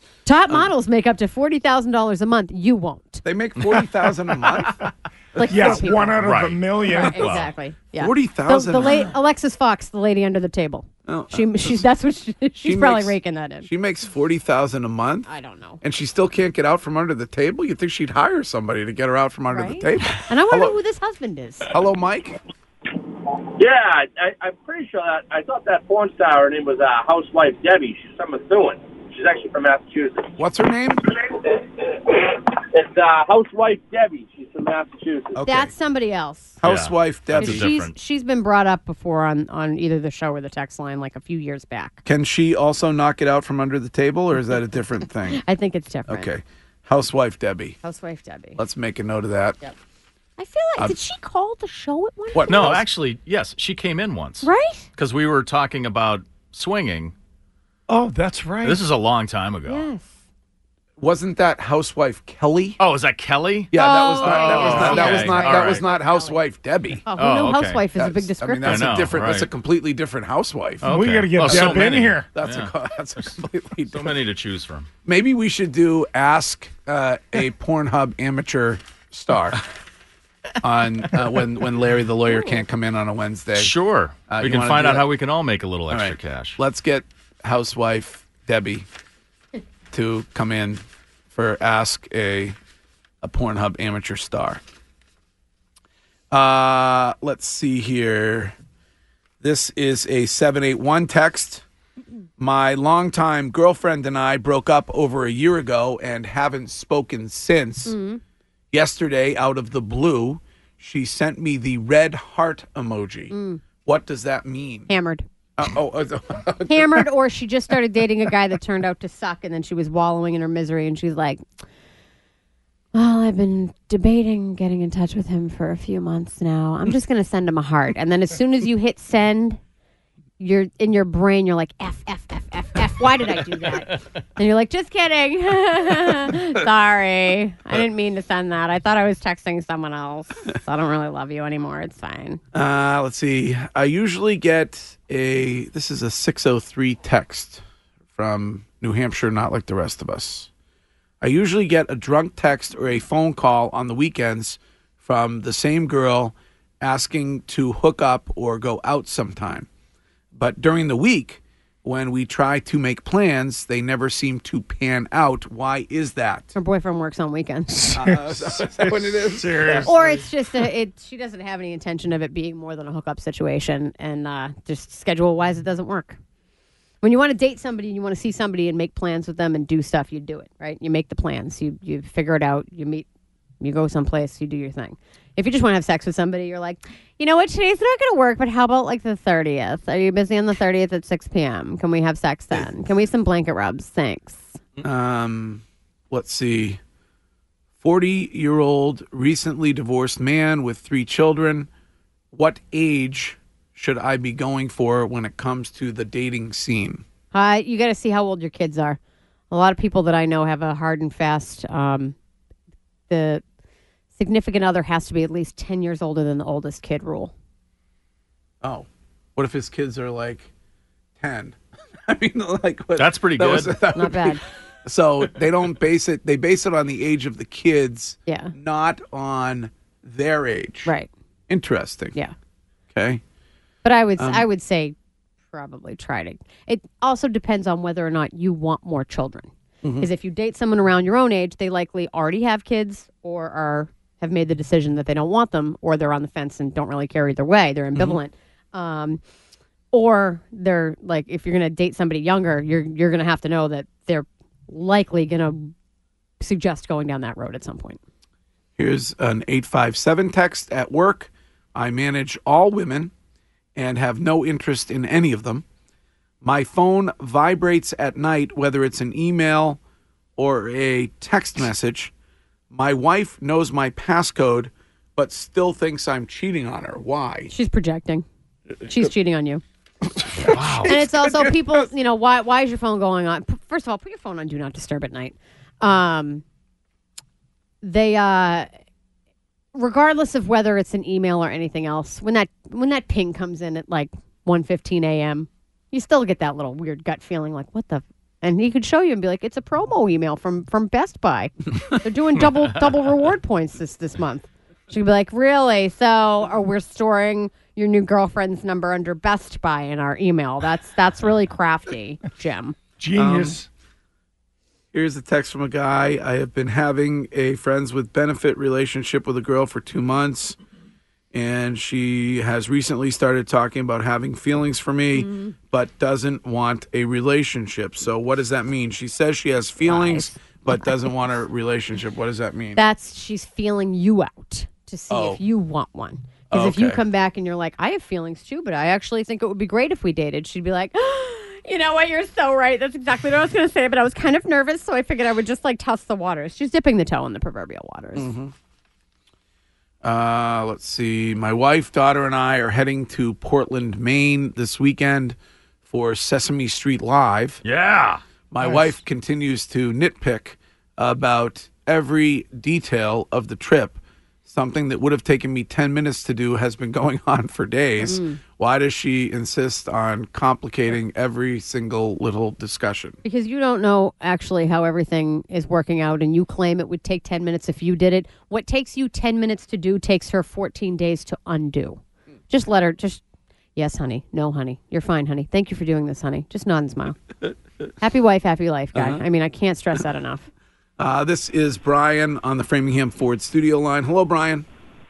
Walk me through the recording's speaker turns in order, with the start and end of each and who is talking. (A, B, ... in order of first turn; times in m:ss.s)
0:00.3-0:03.2 A
0:03.2-0:06.1 B
0:05.4-0:06.2 A
0:05.5-0:07.4 C
0:06.2-0:07.5 D
0:06.8-0:13.7 A
0:08.0-0:09.1 B
0:11.1-0:11.8 B
0:12.6-0:15.3 B
0:15.3-0:15.8 A
0:15.8-0:20.8 B
0:19.5-0:21.7 A
0:21.7-0:22.4 B
0:23.6-0:30.3 E
0:30.4-0:31.2 B
0:31.4-0:35.4 E
0:35.4-0:35.7 B
0:35.4-0:36.6 A
0:36.6-0:37.8 B
0:36.6-0:37.9 D
0:37.4-0:42.0 A
0:42.1-0:45.4 B
0:45.4-0:46.3 A
0:46.1-0:47.8 B
0:47.8-0:48.6 A
0:48.6-0:49.6 B
0:50.4-0:52.7 A
0:52.3-0:52.9 B
0:52.5-0:57.1 D
0:54.4-0:54.9 A
0:57.9-0:58.8 C
0:58.6-0:59.9 D
0:59.7-1:00.2 A
1:01.0-1:02.8 B
1:02.8-1:05.9 D
1:03.7-1:07.0 B
1:03.8-1:06.4 A
1:07.1-1:08.9 A
1:07.2-1:07.8 D
1:08.0-1:10.9 B
1:08.6-1:09.5 D
1:10.8-1:13.4 D
1:10.9-1:12.3 C
1:11.4-1:14.2 B
1:13.9-1:14.9 D
1:15.0-1:19.6 B
1:20.6-1:23.7 B
1:23.6-1:26.6 D
1:24.3-1:25.1 B
1:25.9-1:28.9 B
1:29.9-1:32.6 B
1:33.2-1:34.6 B
1:36.3-1:38.6 B
1:39.4-1:41.6 B
1:42.4-1:48.0 B
1:47.9-1:48.2 A
1:48.7-1:54.9 B
1:53.3-1:53.6 A
1:54.9-1:55.3 A
1:55.6-1:57.1 B
1:56.7-2:01.4 A
2:02.9-2:09.6 A
2:10.4-2:22.4 A
2:22.5-2:27.6 B
2:28.1-2:30.5 B
2:31.2-2:39.7 B
2:40.3-2:46.5 B
2:46.6-2:47.9 A
2:47.7-2:50.0 C
2:47.9-2:50.0 B
2:49.8-2:56.2 A
2:57.0-3:03.1 A
3:03.6-3:14.6 A
3:14.8-3:16.8 B
3:17.8-3:21.7 B
3:22.3-3:27.0 B
3:27.3-3:29.0 A
3:29.5-3:32.2 A
3:33.1-3:33.4 A
3:34.2-3:37.3 A
3:38.6-3:40.5 B
3:41.2-3:50.9 B
3:43.0-3:43.7 D
3:43.9-3:44.4 A
3:48.3-3:48.5 A
3:51.5-3:52.2 B
3:52.9-3:53.2 B
3:53.8-3:55.0 A
3:54.2-3:54.4 B
3:55.5-4:09.2 A
3:59.8-4:00.1 B
4:09.9-4:15.7 A
4:16.4-4:18.0 A
4:18.8-4:23.1 B
4:23.8-4:25.6 B
4:26.4-4:29.8 B
4:30.4-4:32.1 B
4:32.7-4:37.5 B
4:37.5-4:38.3 A
4:38.8-4:39.6 A
4:40.3-4:41.9 B
4:40.4-4:41.0 D
4:40.8-4:46.4 A
4:47.8-4:48.7 A
4:49.7-5:12.8 A
5:13.0-5:13.7 C
5:13.2-5:13.6 B
5:14.9-5:20.6 B
5:21.3-5:32.8 B
5:25.1-5:25.6 A
5:29.8-5:30.6 A
5:32.8-5:48.3 A
5:35.1-5:35.4 B
5:36.5-5:37.0 B
5:48.2-5:48.5 B
5:50.0-5:57.6 B
5:57.6-5:58.2 D
5:58.5-6:13.2 B
5:58.6-5:58.9 C
6:08.0-6:08.4 A
6:13.2-6:23.2 A
6:23.8-6:27.2 A
6:28.0-6:30.5 A
6:29.0-6:29.2 B
6:31.0-6:34.7 B